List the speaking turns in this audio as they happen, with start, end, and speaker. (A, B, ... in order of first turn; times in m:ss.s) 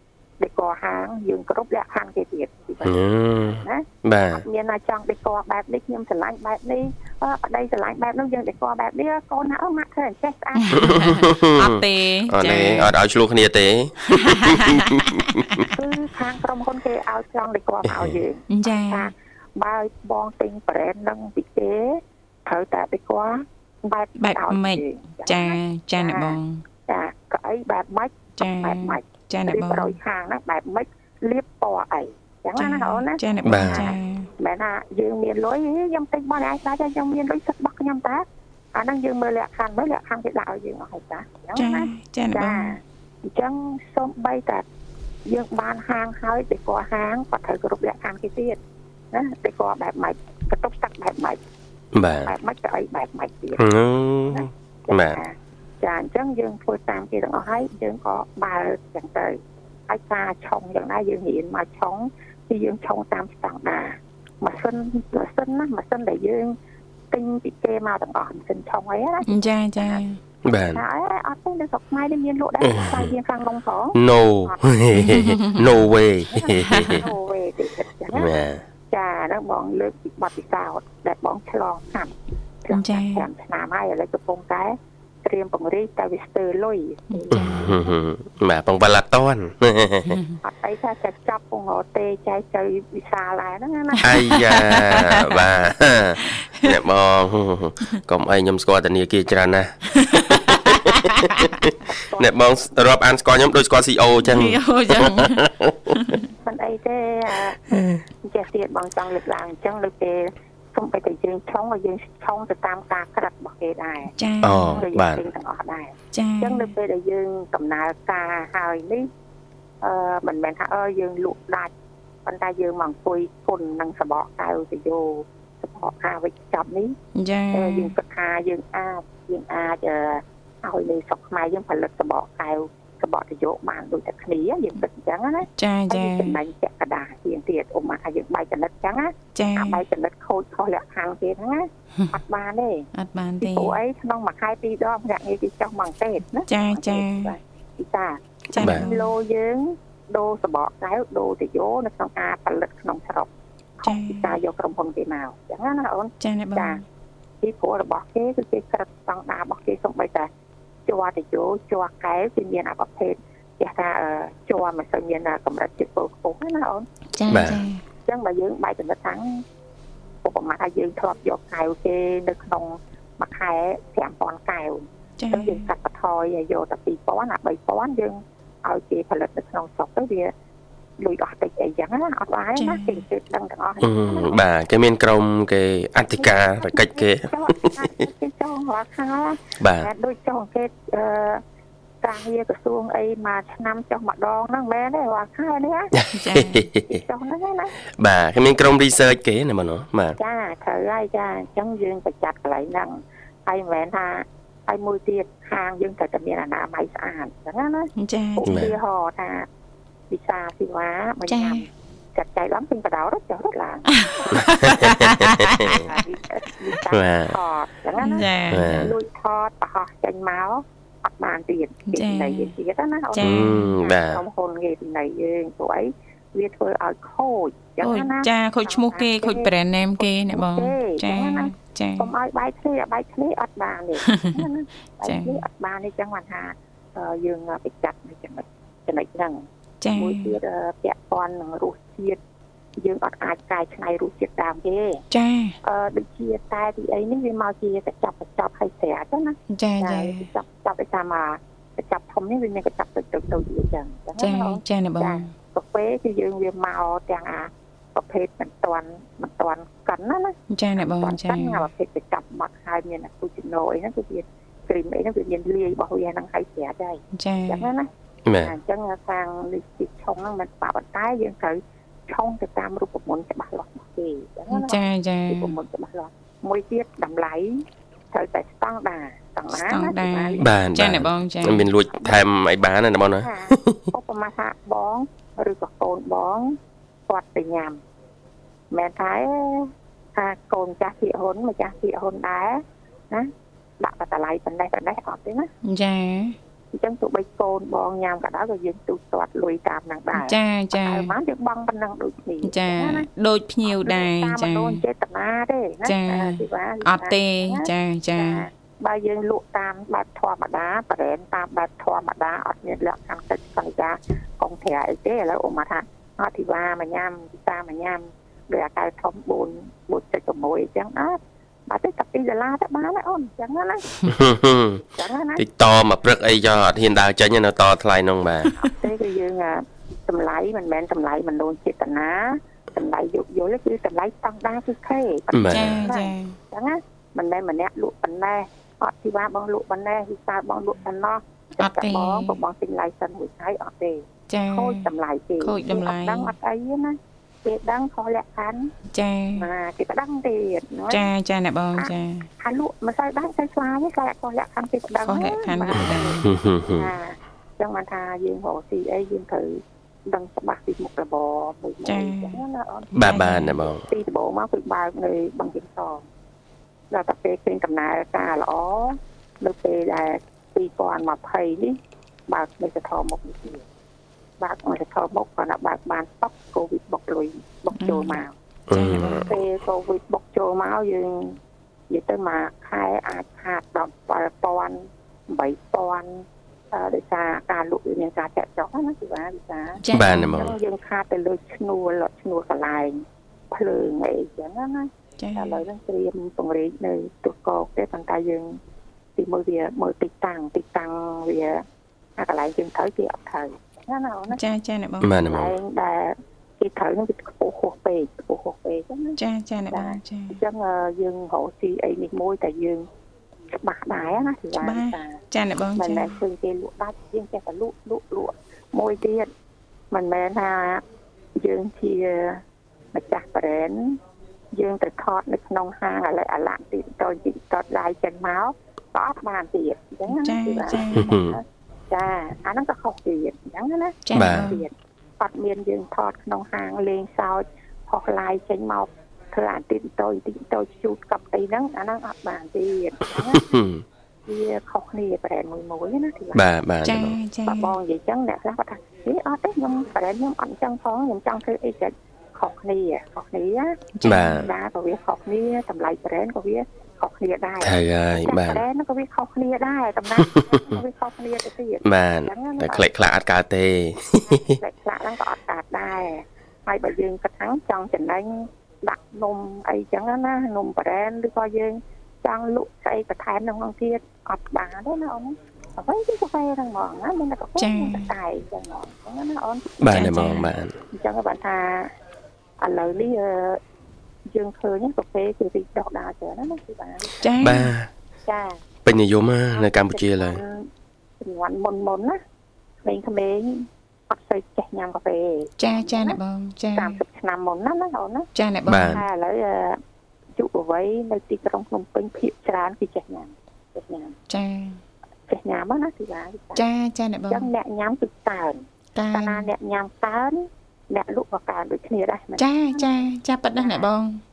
0:00.4-0:11.1 A
0:02.8-0:04.4 B
0:10.6-0:12.9 C
0:10.7-0:15.6 B
0:14.1-0:15.7 C
0:15.7-0:44.6 A
0:17.8-0:18.2 B
0:18.5-0:19.1 C
0:24.2-0:26.6 C
0:28.4-0:30.0 C
0:32.6-0:34.3 C
0:33.4-0:33.9 B
0:41.6-0:42.7 C
0:45.2-0:48.6 A
0:49.1-0:51.4 A
0:51.9-0:52.3 B
0:52.2-0:53.7 A
0:53.6-0:55.2 B
0:54.3-1:06.5 A
1:07.1-1:15.2 A
1:09.2-1:10.2 C
1:10.4-1:10.8 B
1:12.6-1:13.1 B
1:13.9-1:17.0 B
1:15.0-1:15.6 C
1:16.3-1:18.4 A
1:16.7-1:17.0 C
1:18.1-1:18.6 B
1:18.9-1:27.9 A
1:22.7-1:23.2 C
1:27.1-1:27.7 C
1:27.3-1:30.2 B
1:30.1-1:30.4 C
1:30.4-1:34.7 A
1:34.0-1:46.0 B
1:34.0-1:35.4 C
1:36.2-1:36.7 C
1:40.0-1:41.5 C
1:41.8-1:42.7 A
1:44.2-1:46.2 C
1:46.4-1:59.1 A
1:47.7-1:48.0 B
1:54.2-1:54.8 C
1:54.4-1:55.2 B
1:56.1-1:56.7 C
1:59.8-2:01.7 A
2:02.2-2:07.0 A
2:07.1-2:07.9 C
2:07.5-2:22.9 A
2:15.6-2:16.4 C
2:19.3-2:19.8 C
2:22.9-2:23.8 C
2:23.4-2:36.8 A
2:26.5-2:27.3 C
2:28.5-2:29.1 C
2:28.6-2:28.8 B
2:33.8-2:34.4 C
2:36.2-2:36.8 C
2:37.4-2:40.3 A
2:40.8-2:46.9 A
2:47.2-2:47.8 C
2:47.3-2:47.6 B
2:48.0-2:49.4 A
2:50.2-3:00.3 A
2:55.2-2:55.7 C
3:01.0-3:04.4 A
3:02.6-3:03.0 C
3:03.8-3:07.9 B
3:06.1-3:11.4 A
3:09.6-3:09.9 B
3:12.0-3:15.9 A
3:15.9-3:17.0 B
3:16.1-3:16.7 C
3:16.8-3:17.7 A
3:17.9-3:20.2 B
3:20.2-3:29.5 A
3:28.0-3:28.6 C
3:28.4-3:28.7 B
3:30.1-3:34.7 A
3:31.3-3:31.6 C
3:33.9-3:35.9 C
3:34.4-3:35.8 B
3:35.6-4:02.2 A
3:36.9-3:37.4 B
3:38.0-3:38.9 C
3:38.5-3:38.9 B
3:41.9-3:42.5 C
3:43.1-3:43.6 C
3:43.2-3:44.2 B
3:47.8-3:52.1 C
3:54.0-3:54.4 C
3:55.0-3:55.4 C
3:59.8-4:00.4 C
4:02.8-4:05.0 A
4:05.1-4:05.6 C
4:05.6-4:40.5 A
4:09.5-4:10.3 C
4:14.2-4:15.3 C
4:20.5-4:21.6 C
4:27.1-4:27.7 C
4:28.2-4:28.5 B
4:34.5-4:35.6 C
4:39.5-4:41.6 C
4:40.4-4:43.9 B
4:43.2-4:46.6 A
4:47.1-4:47.8 A
4:48.7-4:55.5 A
4:55.6-4:56.4 C
4:56.7-5:03.1 A
5:00.1-5:01.1 C
5:02.4-5:04.8 C
5:03.6-5:23.8 A
5:05.8-5:08.4 C
5:24.0-5:24.8 B
5:24.9-5:25.4 A
5:25.4-5:28.5 B
5:28.6-5:48.7 A
5:35.3-5:35.9 B
5:35.5-5:36.4 C
5:41.6-5:42.4 C
5:44.3-5:46.3 C
5:48.9-5:49.5 C
5:49.3-5:51.1 A
5:50.9-5:52.3 C
5:51.7-6:06.0 A
5:55.0-5:56.2 C
5:56.2-5:56.9 B
6:01.8-6:02.4 C
6:02.9-6:03.9 B
6:03.0-6:03.5 C
6:06.9-6:13.6 A
6:14.4-6:18.3 A
6:17.8-6:19.4 C
6:18.7-6:19.3 B
6:18.9-6:21.4 A
6:21.9-6:38.6 A
6:29.8-6:30.4 C
6:29.9-6:30.5 B
6:35.2-6:35.6 C
6:39.2-6:41.6 A
6:42.2-6:44.4 A
6:44.3-6:45.1 C
6:45.0-6:45.5 B
6:45.2-6:52.9 A
6:49.2-6:50.4 C
6:53.5-6:55.2 A
6:54.6-6:56.2 C
6:55.8-6:59.3 A
6:59.9-7:00.8 A
7:01.4-7:04.0 A
7:04.5-7:23.5 A
7:10.1-7:11.1 C
7:10.9-7:11.4 B
7:14.0-7:14.6 C
7:14.1-7:14.5 B
7:23.3-7:23.8 B
7:24.3-7:26.4 A
7:26.3-7:27.2 B
7:26.8-7:27.7 C
7:27.4-7:42.9 A
7:34.0-7:34.5 C
7:34.0-7:34.5 B
7:37.6-7:38.6 B
7:40.2-7:40.8 B
7:41.8-7:44.6 B
7:44.2-8:00.3 A
7:57.6-7:58.1 C
7:59.8-8:00.8 B
7:59.9-8:00.5 C
8:00.9-8:01.9 A
8:02.6-8:03.6 A
8:04.3-8:07.2 A
8:07.2-8:07.7 C
8:07.4-8:07.9 B
8:08.2-8:08.6 A
8:08.8-8:10.4 B
8:09.5-8:10.7 A
8:11.2-8:12.2 A
8:12.8-8:16.2 A
8:15.6-8:17.0 C
8:16.7-8:18.3 A
8:18.3-8:19.0 C
8:18.6-8:19.0 B
8:18.8-8:19.8 A
8:20.4-8:24.2 A
8:24.3-8:24.8 C
8:25.3-8:26.6 A
8:26.5-8:27.5 C
8:27.3-8:33.0 A
8:28.9-8:29.5 C
8:32.4-8:34.2 C
8:33.5-8:33.9 A